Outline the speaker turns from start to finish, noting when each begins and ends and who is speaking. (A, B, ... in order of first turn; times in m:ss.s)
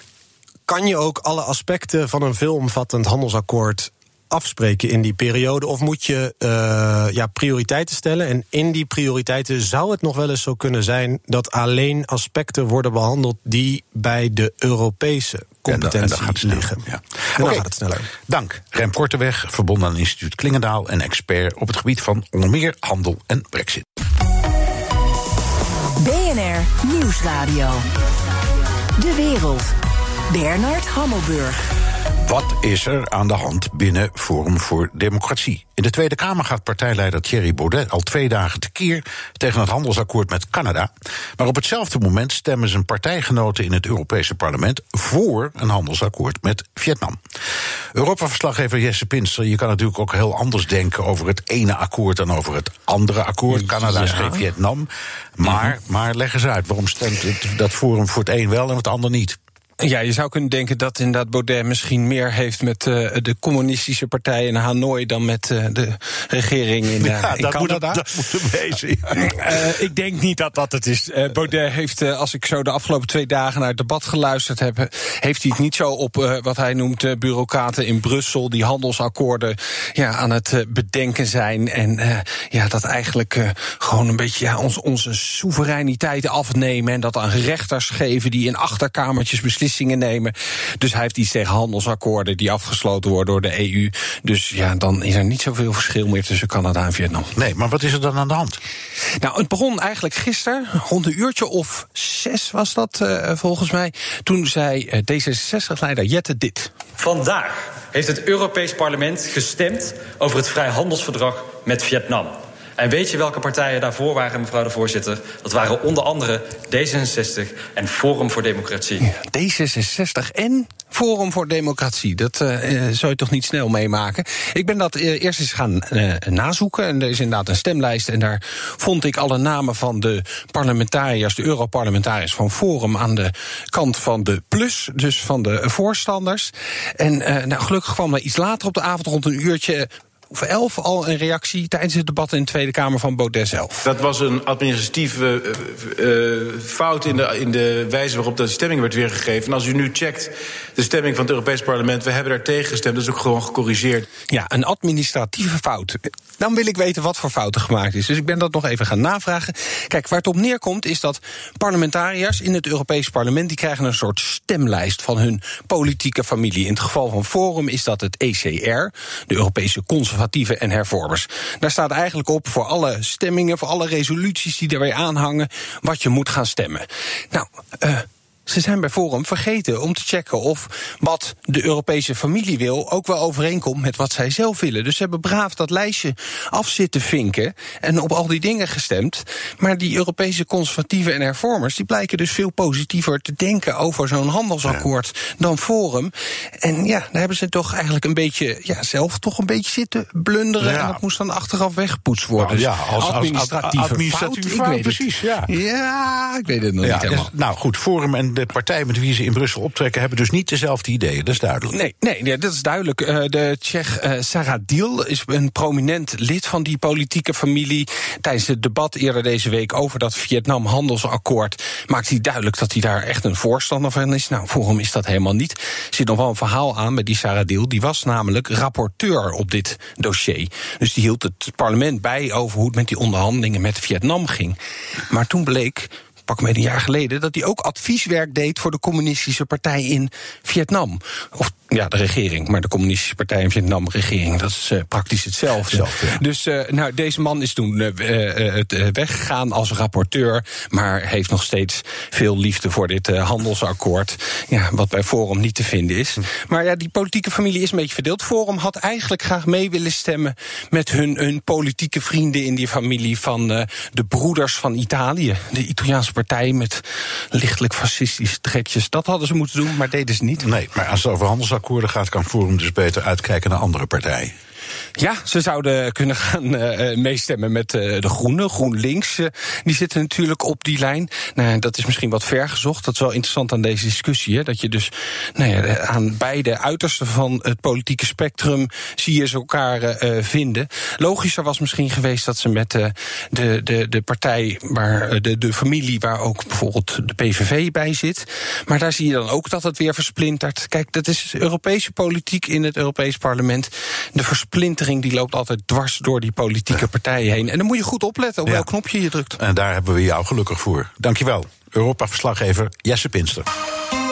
0:00.7-0:16.8 A
0:15.7-0:17.7 B
0:17.4-0:18.1 A
0:18.2-0:23.8 B
0:26.0-0:27.9 C
0:29.0-0:29.7 C
0:30.3-0:31.6 C
0:32.2-0:47.2 B
0:47.9-0:59.4 B
0:53.6-0:54.4 D
0:59.8-1:08.2 D
1:07.0-1:09.6 B
1:09.1-1:37.3 D
1:37.3-1:38.6 B
1:39.2-1:46.8 D
1:47.0-1:59.0 E
1:59.0-2:23.8 D
2:23.8-2:34.1 F
2:34.3-3:27.3 D
3:20.6-3:21.0 B
3:22.4-3:25.5 B
3:26.8-3:31.8 B
3:31.7-3:54.6 D
3:55.1-4:30.5 D
4:05.7-4:06.2 B
4:30.4-4:34.4 B
4:35.0-5:09.4 D
5:09.4-5:13.5 B